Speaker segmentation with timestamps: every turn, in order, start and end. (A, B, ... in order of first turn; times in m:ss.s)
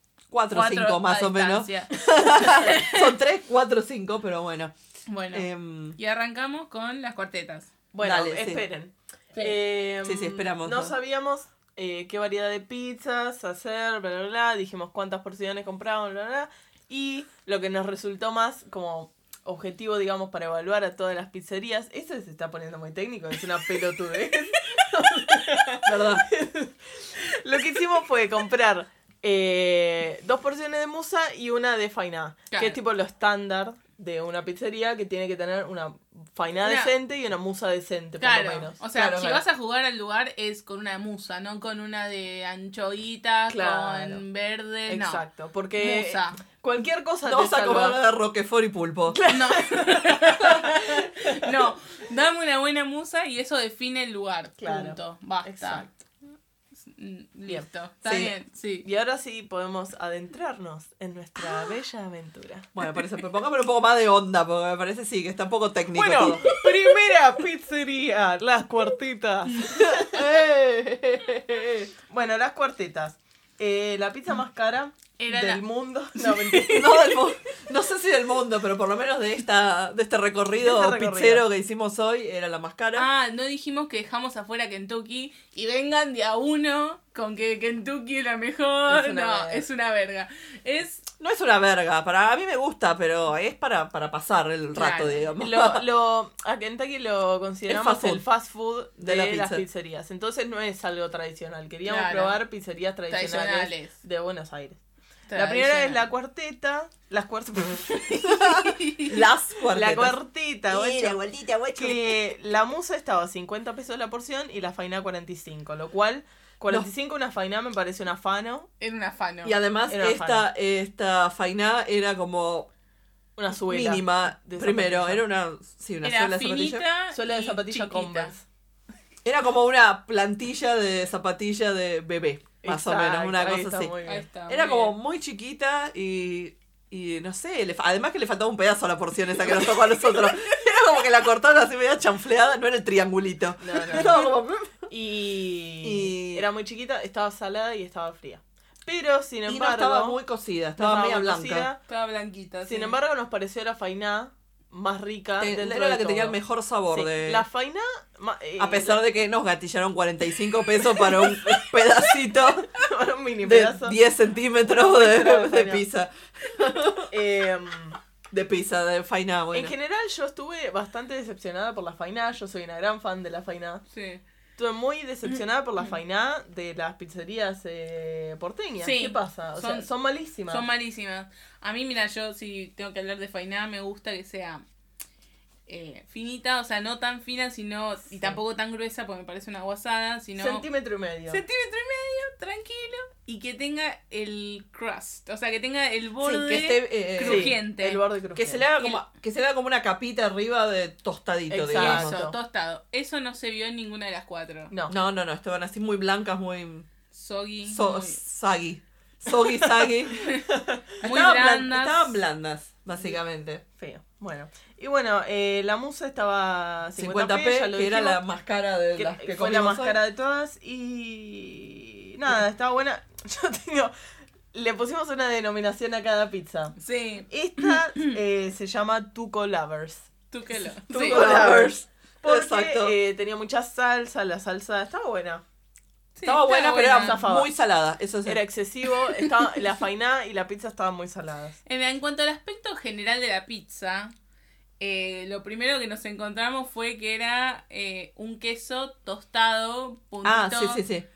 0:00.3-0:04.7 A
0:00.5-0:03.1 B
0:05.1-0:07.7 B
0:05.3-0:06.0 A
0:07.9-0:38.8 C
0:08.0-0:08.6 A
0:10.0-0:11.0 A
0:24.8-0:25.3 B
0:25.8-0:26.2 A
0:32.5-0:32.8 B
0:36.6-0:36.9 B
0:38.2-0:45.2 B
0:38.9-0:39.4 A
0:43.5-0:44.2 C
0:44.9-0:48.0 C
0:45.8-0:46.4 B
0:47.2-0:49.2 A
0:49.2-0:51.5 C
0:49.3-0:55.9 B
0:54.6-0:55.9 C
0:56.8-0:58.9 B
0:58.0-0:58.3 A
0:58.8-1:02.7 C
1:02.7-1:06.4 A
1:05.9-1:10.2 C
1:09.7-1:11.9 A
1:12.1-1:17.2 C
1:15.2-1:15.6 B
1:16.2-1:17.0 B
1:16.7-1:23.1 A
1:20.6-1:21.4 C
1:22.9-1:31.1 B
1:28.9-1:29.6 C
1:31.2-1:35.8 A
1:34.7-1:35.2 B
1:35.4-1:44.8 C
1:37.7-1:38.2 A
1:39.0-1:39.6 A
1:41.8-1:42.4 B
1:43.1-1:43.9 B
1:45.3-1:46.1 B
1:45.3-1:48.6 C
1:48.2-1:50.2 A
1:48.6-1:49.1 B
1:49.7-1:51.2 C
1:50.7-1:52.2 A
1:51.7-1:58.7 C
1:58.8-1:59.6 B
1:59.4-2:02.7 A
1:59.9-2:00.4 C
2:03.4-2:05.2 C
2:03.7-2:06.8 A
2:06.0-2:08.3 B
2:07.1-2:08.4 C
2:09.2-2:13.9 A
2:12.6-2:14.3 C
2:14.0-2:15.0 B
2:14.5-2:24.9 A
2:23.6-2:24.3 C
2:24.9-2:30.2 C
2:25.8-2:26.4 A
2:29.4-2:31.7 A
2:30.8-2:31.8 C
2:31.9-2:33.0 B
2:32.6-2:36.4 C
2:35.4-2:37.4 A
2:36.9-2:39.0 C
2:38.6-2:42.7 A
2:42.7-2:44.0 C
2:43.4-2:47.1 A
2:44.6-2:45.8 C
2:47.1-2:48.0 C
2:48.3-2:49.7 A
2:49.5-2:53.8 C
2:53.9-2:54.2 B
2:54.6-3:00.6 C
2:55.3-2:55.9 B
2:58.8-2:59.9 B
3:00.5-3:04.6 B
3:05.7-3:10.6 B
3:08.1-3:08.4 C
3:10.4-3:11.4 C
3:11.3-3:18.0 B
3:16.2-3:17.5 A
3:17.2-3:18.6 C
3:18.4-3:22.2 A
3:21.5-3:22.4 C
3:21.8-3:24.7 B
3:24.7-3:25.0 C
3:24.9-3:26.9 A
3:27.1-3:28.2 B
3:27.6-3:30.3 A
3:30.2-3:30.4 B
3:30.5-3:30.8 C
3:31.0-3:32.2 B
3:31.0-3:33.6 A
3:33.8-3:38.2 C
3:37.0-3:40.0 A
3:38.9-3:43.9 C
3:44.5-3:46.8 C
3:46.8-3:48.2 B
3:47.3-3:50.1 C
3:50.3-3:51.3 B
3:50.9-3:55.4 C
3:50.9-3:53.0 A
3:56.2-3:57.2 B
3:56.2-3:58.4 A
3:56.8-3:57.5 C
3:58.2-4:01.6 C
4:01.6-4:04.1 B
4:04.8-4:10.8 B
4:10.2-4:11.0 A